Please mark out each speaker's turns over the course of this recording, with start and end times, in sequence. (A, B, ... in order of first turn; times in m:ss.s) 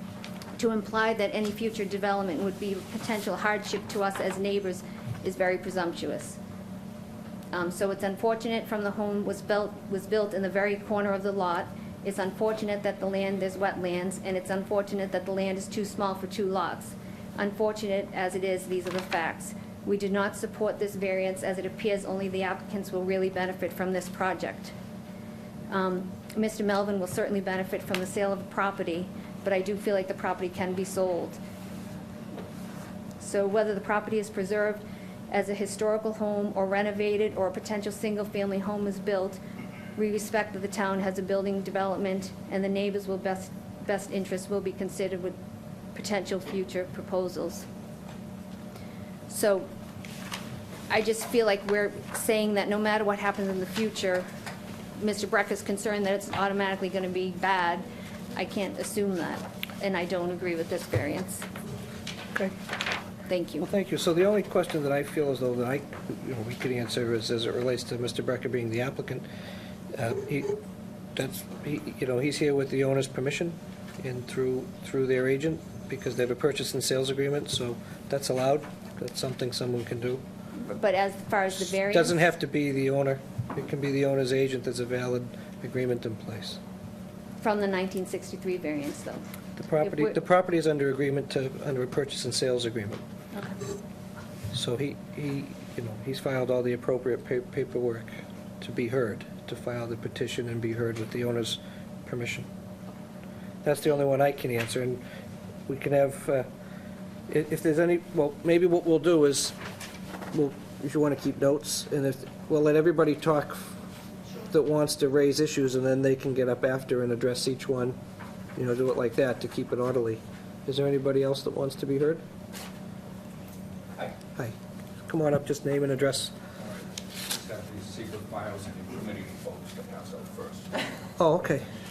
0:00.6-0:06.4 A
0:07.5-0:24.7 A
0:25.7-0:31.4 A
0:33.2-0:39.4 A
0:40.0-0:45.4 A
0:45.9-0:47.6 A
0:49.3-0:49.7 A
0:50.9-0:54.2 A
0:55.0-1:01.4 A
1:03.3-1:03.7 A
1:03.6-1:09.2 B
1:09.9-1:10.5 B
1:11.2-1:20.2 B
1:20.6-1:22.2 A
1:21.6-1:26.6 B
1:27.4-1:29.2 A
1:29.6-1:33.0 B
1:29.8-1:30.2 A
1:33.3-1:33.6 A
1:34.5-1:42.5 B
1:43.6-1:45.0 B
1:45.7-1:46.5 B
1:47.3-1:49.5 B
1:50.3-1:53.8 B
1:54.5-1:58.0 B
1:58.6-2:02.2 B
2:05.0-2:06.3 B
2:06.6-2:10.7 C
2:11.2-2:11.6 B